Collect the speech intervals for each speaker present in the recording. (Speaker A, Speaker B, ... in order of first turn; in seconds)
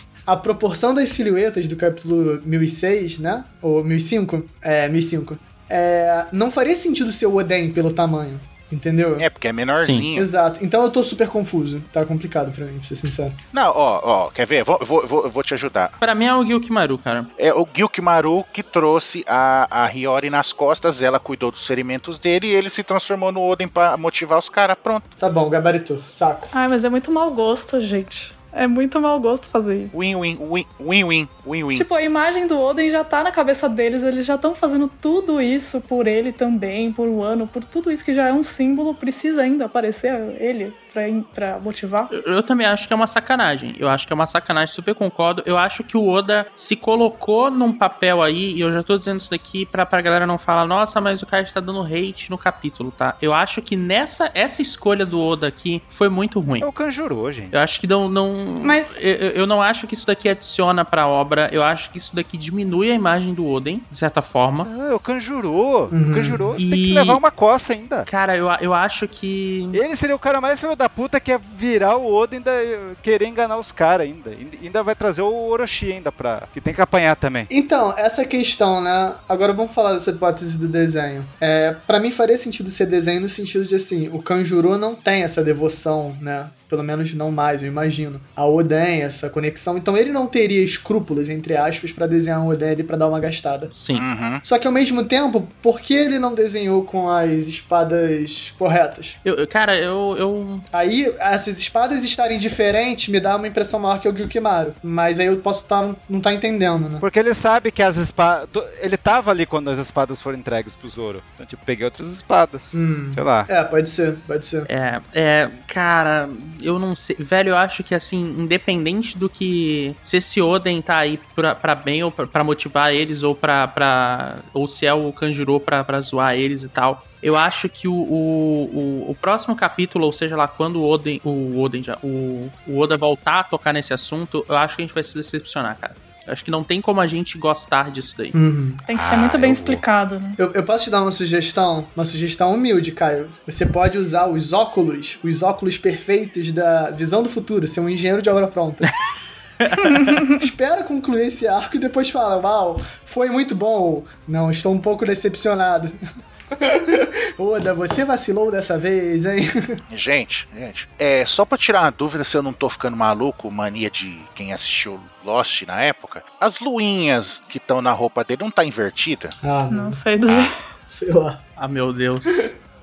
Speaker A: 0.3-9.3, 10.1-13.4, 25.2-26.5, 65.9-66.6, 77.5-93.7, 94.4-99.2, 100.7-107.0, 112.7-114.7, 138.3-138.8, 140.4-148.9, 150.4-156.0, 156.6-159.8, 169.4-170.0, 170.9-171.4
Speaker B: 9.2-10.3, 13.5-15.9, 17.4-25.1, 29.9-31.9, 93.9-94.4, 159.9-169.3
Speaker C: 9.7-10.1, 16.0-17.3, 42.1-56.7, 57.5-64.7, 66.6-67.2, 68.0-69.8, 93.7-94.0, 99.2-100.7, 114.7-138.4, 149.6-150.1, 171.6-172.5
Speaker D: 26.5-30.0, 31.7-42.1, 58.6-59.0, 138.8-140.4, 169.7-170.6
Speaker E: 56.6-57.5, 64.6-68.1, 69.7-77.5, 107.0-113.5, 138.9-139.8